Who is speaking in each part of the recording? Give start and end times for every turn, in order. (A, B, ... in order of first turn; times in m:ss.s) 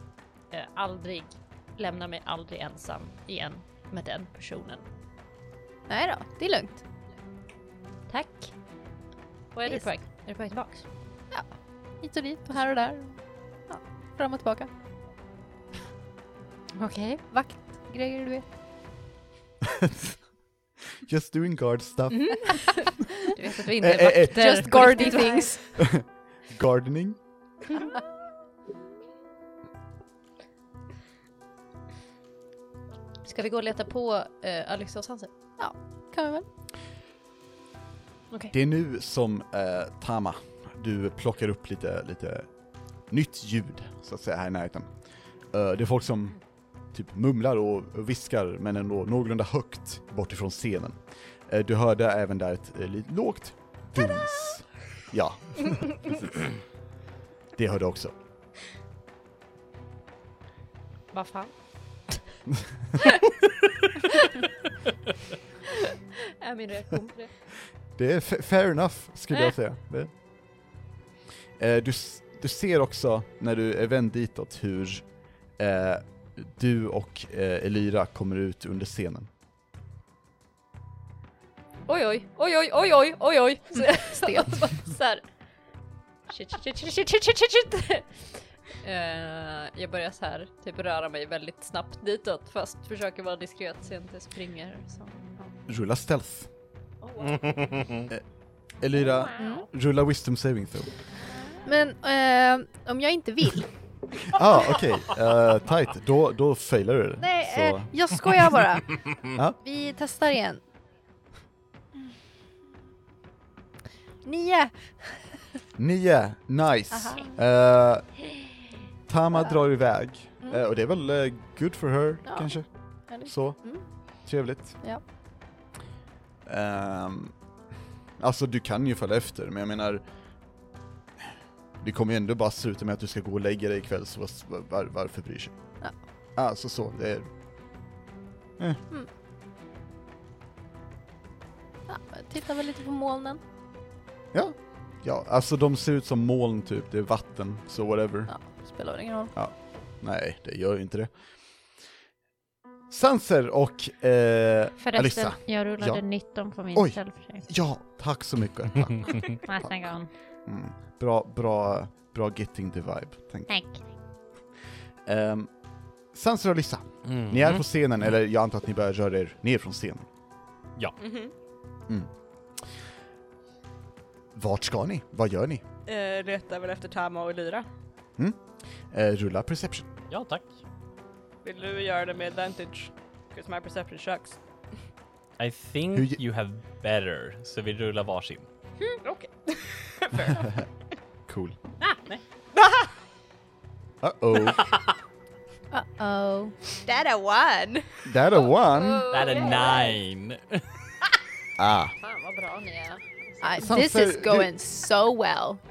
0:00.5-0:04.8 A
0:05.9-0:06.8 B
0:08.1-0:08.6 A
0:09.5-0:10.9 A
0:11.3-0:14.7 B
0:16.8-0:17.2 A
0:17.3-0:18.4 B
0:19.6-0:20.2 C
0:21.0-0:22.8 C
0:22.1-0:25.6 A
0:22.3-0:23.1 B
0:23.8-0:24.6 C
0:24.3-0:25.8 B
0:25.8-0:27.2 C
0:33.2-0:35.3 A
0:35.6-0:36.5 B
0:38.5-0:42.5 C
0:43.1-0:44.9 C
0:45.5-0:46.4 C
0:46.9-0:56.5 C
0:57.6-0:58.2 C
1:01.1-1:01.5 A
1:06.4-1:07.3 A
1:08.0-1:10.1 C
1:11.6-1:15.0 C
1:15.6-1:19.3 C
1:21.9-1:25.2 A
1:23.8-1:24.6 B
1:26.3-1:28.1 A
1:28.8-1:35.5 A
1:35.7-1:36.5 C
1:37.1-1:37.4 A
1:37.2-1:38.1 D
1:38.8-1:41.0 C
1:39.4-1:39.6 B
1:39.4-1:39.6 A
1:41.6-1:43.7 B
1:44.3-1:47.9 C
1:47.2-1:49.0 B
1:49.6-1:50.6 B
1:54.2-1:55.4 B
1:55.8-1:58.3 C
1:56.9-1:57.3 B
1:59.1-2:02.7 C
2:02.3-2:02.6 B
2:03.1-2:03.8 B
2:03.2-2:03.6 C
2:04.2-2:04.8 C
2:06.5-2:07.4 C
2:08.2-2:10.0 C
2:11.8-2:15.6 C
2:16.4-2:17.3 C
2:21.9-2:23.4 B
2:24.3-2:28.3 C
2:28.3-2:29.3 B
2:29.4-2:31.1 C
2:32.9-2:36.0 C
2:34.8-2:37.5 A
2:36.7-2:39.9 C
2:39.4-2:40.1 A
2:40.5-2:43.5 C
2:43.5-2:43.8 A
2:45.1-2:45.5 C
2:46.1-2:50.1 C
2:47.0-2:47.6 D
2:51.0-2:51.3 E
2:54.3-2:55.6 C
2:55.9-2:57.7 E
2:58.2-2:59.9 C
3:00.1-3:00.6 D
3:01.4-3:04.4 E
3:05.4-3:08.5 D
3:05.9-3:06.2 C
3:09.0-3:10.6 E
3:11.3-3:11.6 C
3:11.8-3:12.2 D
3:12.5-3:12.9 E
3:14.0-3:14.7 C
3:14.5-3:14.9 D
3:15.7-3:16.6 B
3:16.8-3:17.8 E
3:18.0-3:19.1 C
3:18.6-3:20.0 A
3:19.1-3:20.6 D
3:21.6-3:22.0 C
3:22.0-3:23.7 A
3:23.4-3:25.6 B
3:23.6-3:24.5 C